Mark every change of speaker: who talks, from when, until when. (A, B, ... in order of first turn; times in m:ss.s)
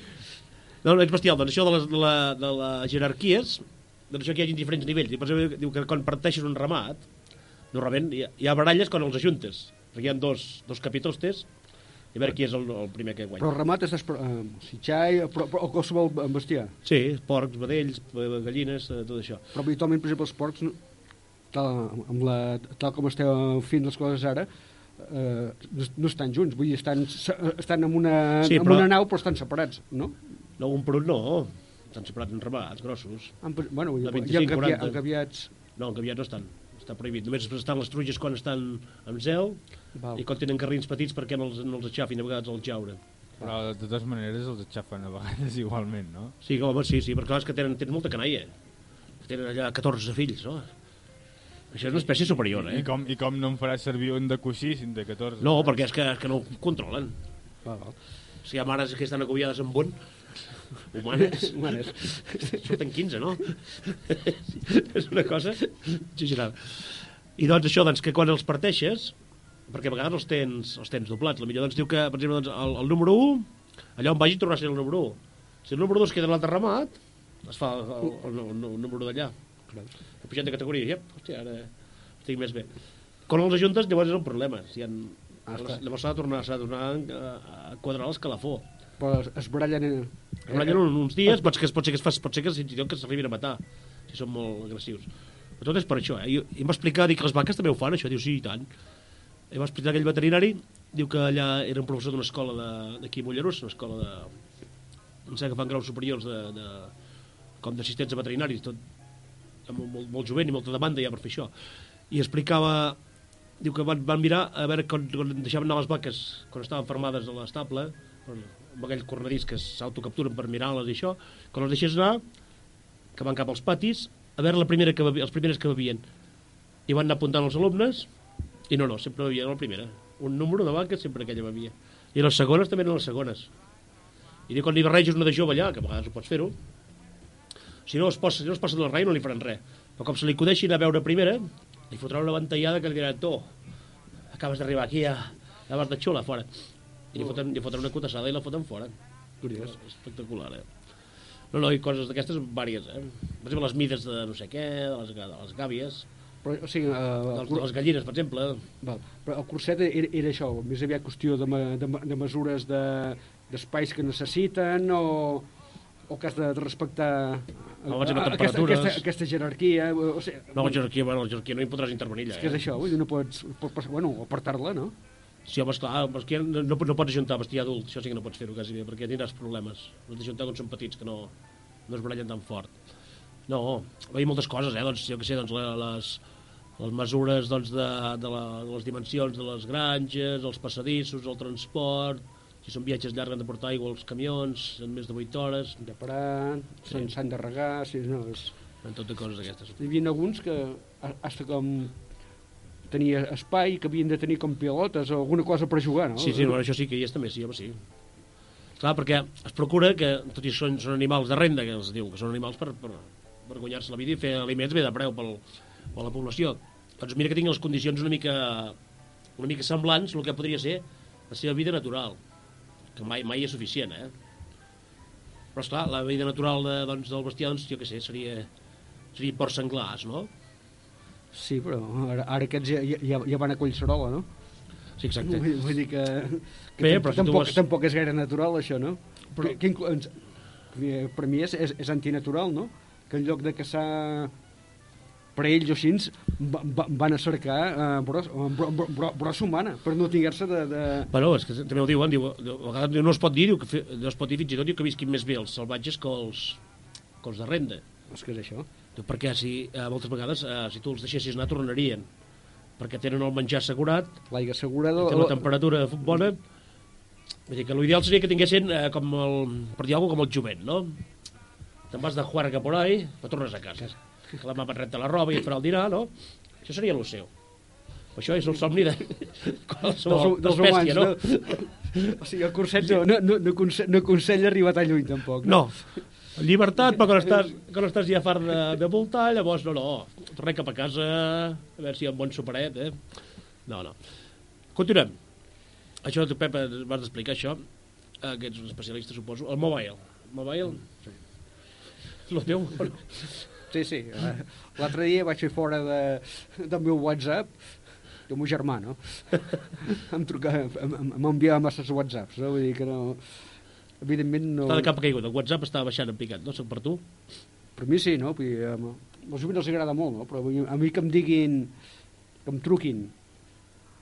0:00.8-0:13.5 A
0:13.4-0:16.8 B
0:16.8-0:19.4 A
0:19.5-0:30.4 B
0:28.4-0:28.9 A
0:30.6-0:43.0 A
0:33.4-0:35.5 B
0:39.9-0:40.2 B
0:43.4-0:46.4 C
0:46.4-0:48.6 A
0:49.2-0:51.1 A
0:51.7-0:52.9 A
0:52.3-0:55.9 C
0:55.4-0:57.2 A
0:57.6-0:58.0 B
0:58.4-1:01.8 A
1:01.2-1:02.6 B
1:02.4-1:28.6 A
1:19.7-1:19.9 B
1:25.4-1:25.8 B
1:29.0-1:31.4 B
1:30.5-1:39.0 A
1:39.5-2:02.5 A
2:03.1-2:06.1 A
2:06.8-2:13.6 A
2:14.5-2:16.6 A
2:17.8-2:23.7 A
2:24.3-2:28.9 A
2:27.1-2:27.4 B
2:29.4-2:29.8 B
2:29.5-2:36.1 A
2:36.4-2:37.7 B
2:37.3-2:38.6 A
2:38.8-2:45.5 B
2:46.1-2:50.8 B
2:47.9-2:49.0 A
2:50.5-2:52.6 A
2:52.3-2:54.9 B
2:55.4-3:01.3 A
3:01.8-3:15.8 A
3:15.8-3:18.6 B
3:18.8-3:19.8 A
3:19.8-3:26.6 B
3:26.2-3:28.2 A
3:28.8-3:38.8 A
3:39.3-3:42.2 A
3:42.9-3:44.1 A
3:45.5-3:48.5 A
3:49.1-3:50.3 A
3:51.3-3:54.7 B
3:55.0-3:55.6 A
3:55.2-4:04.3 B
3:56.8-3:57.6 A
3:59.3-3:59.6 A
4:05.3-4:11.1 B
4:11.1-4:16.6 A
4:17.2-4:17.8 A
4:18.1-4:18.7 B
4:19.0-4:22.2 A
4:22.8-4:24.3 A
4:24.3-4:26.1 B
4:25.0-4:26.8 A
4:27.5-4:31.2 A
4:31.9-4:41.9 A
4:40.0-4:46.2 B
4:45.4-5:01.5 A
5:00.8-5:01.7 B
5:02.2-5:03.5 A
5:03.7-5:14.9 B
5:14.6-5:17.0 A
5:17.8-5:23.3 B